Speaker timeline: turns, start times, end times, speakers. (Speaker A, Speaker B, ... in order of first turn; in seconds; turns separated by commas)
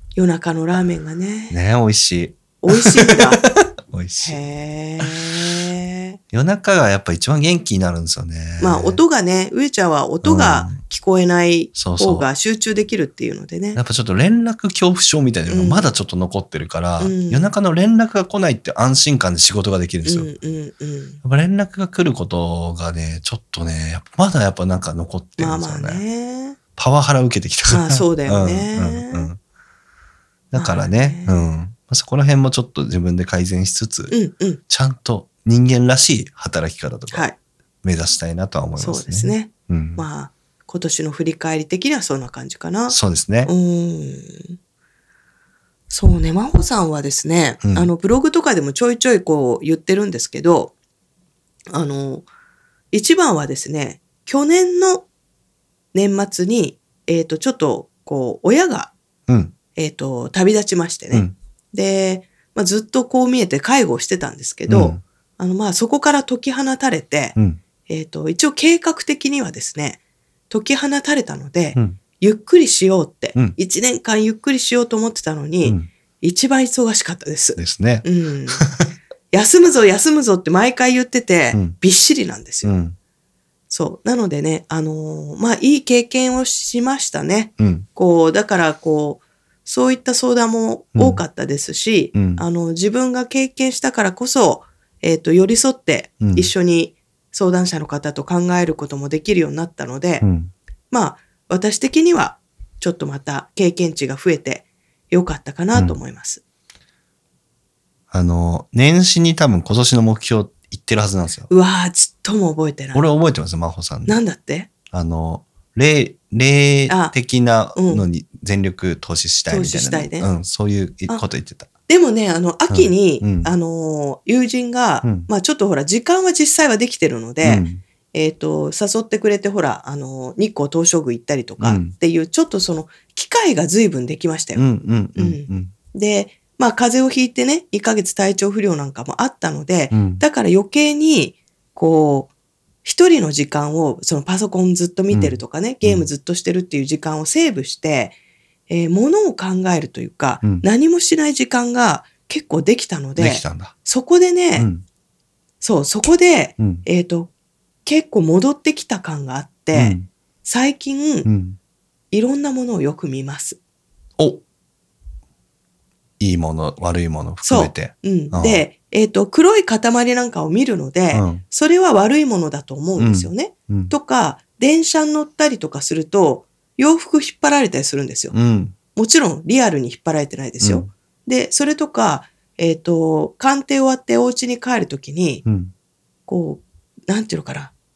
Speaker A: 0.1-1.6, Speaker B: 1.5-4.4, Speaker A: 2.6-3.4, Speaker A: 4.2-6.2, Speaker B: 6.3-9.0, Speaker A: 8.6-13.8, Speaker B: 10.2-10.8, Speaker B: 11.7-12.3, Speaker B: 13.7-20.3, Speaker A: 15.5-15.9, Speaker A: 17.0-17.5, Speaker A: 20.0-21.2, Speaker B: 21.2-26.0, Speaker A: 25.4-26.6, Speaker B: 26.8-29.4, Speaker A: 27.7-29.3, Speaker B: 30.5-34.1, Speaker A: 30.5-31.5, Speaker A: 34.1-34.6, Speaker B: 34.7-37.3, Speaker A: 37.1-37.4, Speaker B: 37.8-40.0, Speaker A: 38.8-44.6, Speaker B: 42.9-43.5, Speaker A: 45.9-50.7, Speaker B: 47.6-47.9, Speaker A: 51.7-52.3, Speaker A: 52.9-55.0, Speaker A: 55.9-58.9, Speaker B: 59.3-59.5, Speaker A: 59.8-67.3, Speaker B: 64.7-65.0, Speaker A: 67.9-70.0, Speaker A: 70.5-78.7, Speaker B: 77.6-78.8, Speaker A: 79.3-82.7, Speaker B: 82.6-83.0, Speaker A: 83.7-100.2, Speaker B: 87.6-87.8, Speaker B: 90.9-91.2, Speaker B: 92.1-92.4, Speaker B: 96.2-96.5, Speaker B: 100.2-100.5, Speaker A: 100.9-106.4, Speaker B: 108.1-111.5, Speaker A: 111.5-113.0, Speaker B: 112.9-114.2, Speaker A: 114.0-114.7, Speaker B: 114.9-121.7, Speaker A: 116.9-117.1, Speaker A: 117.7-118.0, Speaker A: 119.5-120.3, Speaker A: 121.9-134.6, Speaker B: 122.7-123.5, Speaker B: 125.0-125.3, Speaker B: 127.4-127.8, Speaker B: 131.6-131.9, Speaker B: 134.6-135.7, Speaker A: 135.1-142.3, Speaker B: 139.9-140.2, Speaker A: 142.8-148.2, Speaker B: 145.1-146.1, Speaker A: 148.7-154.7, Speaker B: 153.2-153.7, Speaker B: 154.6-154.8, Speaker A: 155.6-157.3, Speaker A: 157.8-161.3, Speaker B: 159.7-160.1, Speaker B: 161.2-161.6, Speaker A: 162.1-163.6, Speaker B: 166.2-168.6, Speaker A: 167.4-178.3, Speaker B: 171.1-171.4, Speaker B: 173.0-173.9, Speaker B: 178.3-178.7, Speaker A: 178.9-185.4, Speaker B: 180.6-180.9, Speaker B: 185.4-185.7, Speaker A: 186.3-187.7